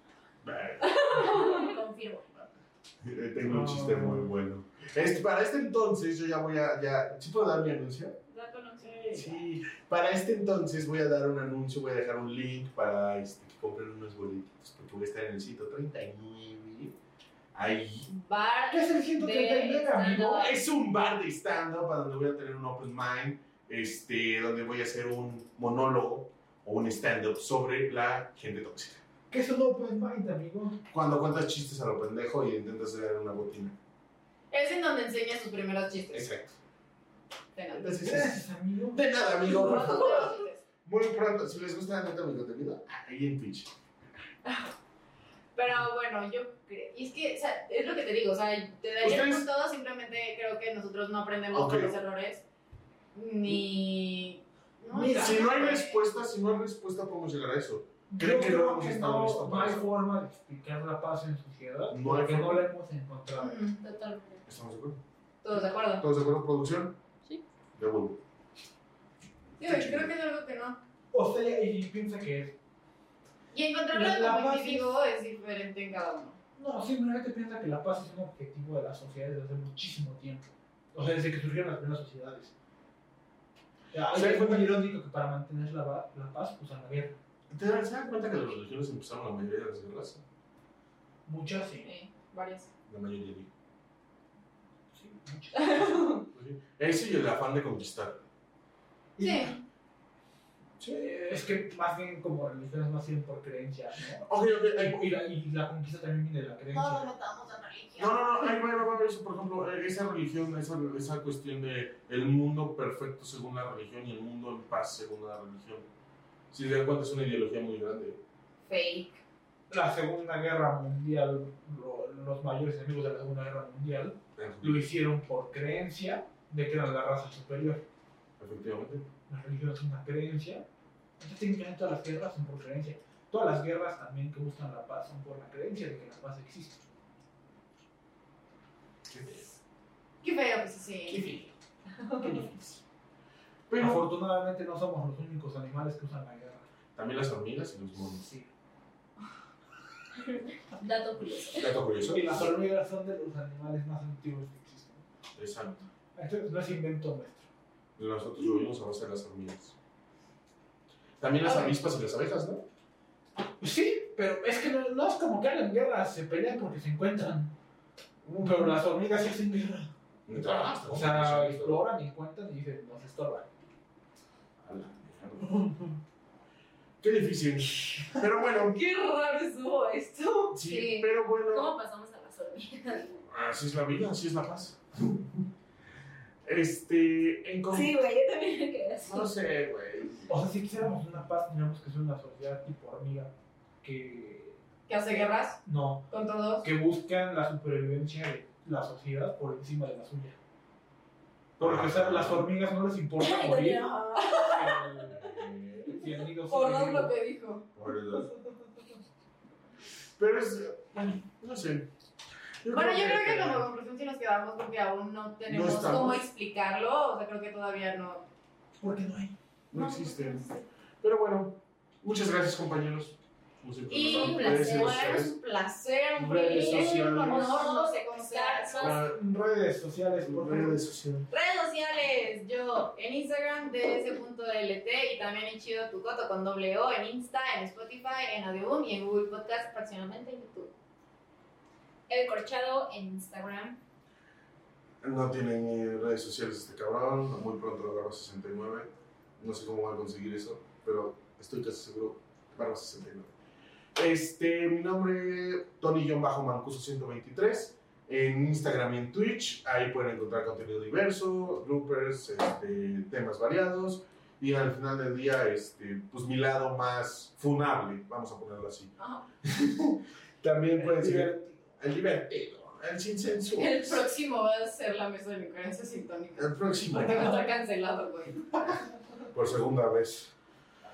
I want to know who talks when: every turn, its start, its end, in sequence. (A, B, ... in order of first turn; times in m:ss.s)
0:00.4-0:01.3 A
0:01.0-0:01.7 B
0:01.0-0:02.3 C
0:02.3-0:08.2 A
0:03.4-0:04.3 D
0:08.3-0:09.4 B
0:09.1-0:17.0 A
0:17.5-0:18.1 A
0:18.1-0:20.6 B
0:18.7-0:20.5 D
0:20.0-0:29.0 A
0:29.3-0:30.8 D
0:30.9-0:33.8 A
0:34.5-0:36.3 B
0:36.1-0:36.5 A
0:37.5-0:38.0 B
0:37.7-0:43.7 A
0:38.0-0:39.0 D
0:39.4-0:40.6 B
0:45.5-0:52.4 B
0:49.0-0:49.5 A
0:51.5-0:52.0 A
0:53.1-0:56.0 B
0:54.9-0:55.4 D
0:55.0-0:59.9 A
0:58.1-1:03.6 D
1:01.9-1:02.6 A
1:03.4-1:03.8 B
1:03.8-1:04.4 C
1:04.4-1:05.0 A
1:05.4-1:06.0 B
1:05.5-1:07.0 A
1:07.7-1:08.2 A
1:09.6-1:10.8 B
1:09.6-1:10.1 A
1:11.1-1:12.5 D
1:13.5-1:16.4 B
1:13.9-1:15.0 D
1:16.6-1:22.5 D
1:23.9-1:27.1 D
1:24.1-1:24.9 A
1:27.5-1:30.2 A
1:31.2-1:31.9 D
1:31.8-1:32.7 B
1:32.9-1:33.5 A
1:34.9-1:36.1 D
1:35.6-1:36.2 B
1:36.3-1:38.2 A
1:39.2-1:39.6 D
1:39.2-1:39.6 B
1:40.8-1:41.1 A
1:40.9-1:47.1 D
1:44.2-1:45.0 A
1:46.7-1:48.5 B
1:48.0-1:55.9 A
1:56.5-1:58.2 A
1:58.7-1:59.2 B
1:59.7-2:07.8 D
2:04.4-2:04.8 A
2:08.4-2:09.1 A
2:09.3-2:10.6 D
2:11.2-2:16.8 D
2:19.1-2:19.6 A
2:20.2-2:21.2 B
2:21.1-2:21.5 A
2:22.1-2:22.8 A
2:23.7-2:24.1 A
2:23.8-2:26.6 D
2:27.0-2:28.3 A
2:28.1-2:28.5 D
2:30.1-2:31.7 C
2:31.5-2:32.5 A
2:32.0-2:35.0 D
2:35.4-2:35.8 A
2:36.1-2:37.4 D
2:38.0-2:39.7 A
2:41.2-2:42.6 A
2:41.4-2:41.8 B
2:43.6-2:47.5 D
2:48.2-2:48.7 A
2:48.4-2:49.9 D
2:50.3-2:51.8 A
2:50.8-2:53.6 D
2:54.6-2:55.6 A
2:55.4-2:56.0 D
2:57.0-2:58.8 A
2:58.6-3:00.6 B
3:00.5-3:01.7 A
3:00.5-3:03.2 C
3:03.2-3:05.5 A
3:06.4-3:08.0 A
3:07.7-3:09.3 C
3:09.0-3:10.3 A
3:10.3-3:13.3 D
3:13.8-3:14.6 D
3:14.9-3:16.6 B
3:15.6-3:16.1 D
3:16.6-3:20.4 D
3:21.6-3:25.2 D
3:21.6-3:22.5 A
3:23.2-3:25.1 C
3:25.0-3:26.0 A
3:25.9-3:27.1 D
3:26.5-3:27.6 B
3:27.7-3:28.3 A
3:30.2-3:31.9 A
3:32.6-3:33.7 A
3:32.7-3:38.2 B
3:35.5-3:36.2 A
3:38.8-3:39.3 D
3:39.7-3:40.5 A
3:39.7-3:40.6 B
3:41.0-3:45.3 A
3:43.9-3:49.0 B
3:44.0-3:45.0 C
3:46.2-3:47.8 A
3:46.5-3:49.0 C
3:48.8-3:49.2 A
3:48.8-3:50.8 D
3:50.1-3:51.3 A
3:51.3-4:00.7 B
4:02.1-4:03.8 C
4:05.0-4:13.3 A
4:13.9-4:34.0 A
4:29.0-4:29.2 B
4:30.8-4:31.6 D
4:33.6-4:38.4 B
4:36.4-4:37.4 A
4:39.3-4:40.3 A